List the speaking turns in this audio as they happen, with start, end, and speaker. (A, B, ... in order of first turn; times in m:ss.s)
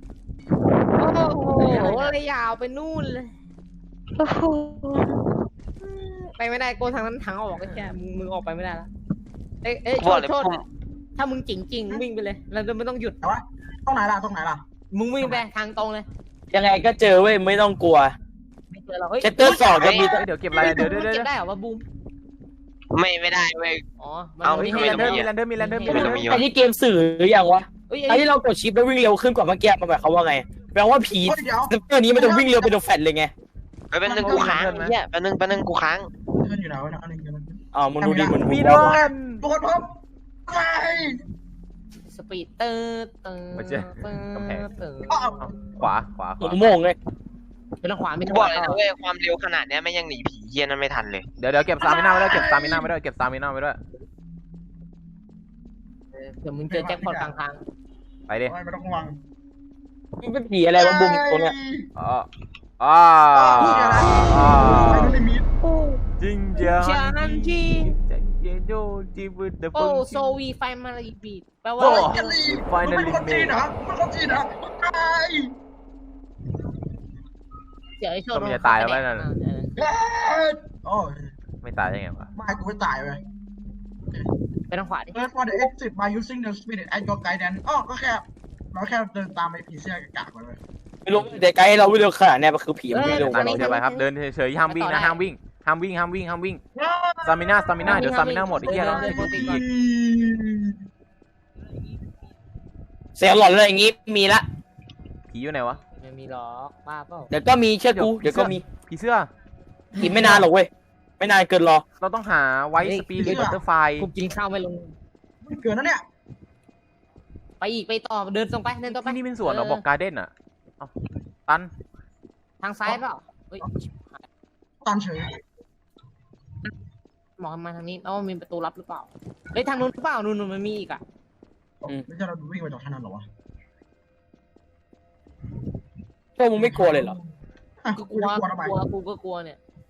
0:01.0-0:03.3 A
0:01.5-0:02.1 B
0:01.6-0:02.1 C
0:04.2-0:05.1 D
0:05.8-0:08.9 A
0:09.6-0:10.5 A
0:10.0-0:10.6 D
0:11.2-0:13.2 A
0:13.2-0:14.6 B
0:14.9-0:16.0 A
0:16.5-0:18.2 E
0:18.7-0:21.8 A
0:19.2-0:20.2 E
0:19.7-0:20.2 D
0:19.9-0:21.3 C
0:20.5-0:20.9 B
0:22.9-0:23.8 D
0:24.0-0:26.3 A
0:24.4-0:25.3 D
0:24.5-0:26.3 C
0:25.9-0:26.4 D
0:25.9-0:33.3 E
0:27.9-0:28.3 A
0:31.2-0:32.7 B
0:33.9-0:36.1 D
0:34.1-0:34.6 B
0:34.1-0:34.9 C
0:34.2-0:34.6 A
0:36.3-0:40.0 B
0:37.7-0:38.9 E
0:38.4-0:39.4 C
0:40.5-0:41.2 B
0:42.1-0:45.4 A
0:43.6-0:44.6 C
0:45.1-0:45.9 B
0:45.4-0:46.7 C
0:46.4-0:47.0 E
0:47.8-0:48.8 A
0:48.2-0:51.2 D
0:51.4-0:53.8 C
0:51.8-0:52.9 B
0:56.4-0:57.6 A
0:56.7-0:57.4 B
0:58.3-0:58.5 C
0:58.5-0:59.2 B
1:00.2-1:01.5 E
1:00.8-1:01.9 B
1:02.0-1:02.3 C
1:02.8-1:05.2 C
1:03.3-1:05.5 B
1:04.2-1:06.0 A
1:06.2-1:10.3 C
1:06.6-1:07.9 A
1:09.7-1:12.1 A
1:11.8-1:15.6 B
1:11.8-1:13.6 C
1:18.0-1:19.8 A
1:18.3-1:19.3 C
1:19.8-1:21.3 B
1:21.6-1:22.3 C
1:22.3-1:23.2 B
1:24.7-1:25.2 A
1:25.1-1:30.6 B
1:31.0-1:33.8 E
1:32.9-1:34.0 A
1:33.0-1:36.6 C
1:34.7-1:35.2 A
1:36.8-1:40.8 B
1:37.2-1:39.6 C
1:37.8-1:39.6 A
1:43.2-1:44.4 E
1:45.3-1:45.8 C
1:46.0-1:47.3 A
1:47.3-1:48.6 E
1:47.9-1:49.3 C
1:50.0-1:50.5 B
1:50.0-1:51.8 E
1:50.0-1:50.4 A
1:52.0-1:54.1 C
1:52.8-1:53.4 A
1:53.2-1:53.6 B
1:54.0-1:54.9 A
1:55.4-1:56.0 B
1:57.6-1:59.8 A
1:58.9-2:00.9 C
2:02.6-2:03.7 A
2:04.8-2:05.4 B
2:07.4-2:11.0 A
2:11.8-2:13.2 B
2:16.4-2:17.2 E
2:16.6-2:17.3 B
2:17.8-2:18.8 B
2:18.0-2:19.6 A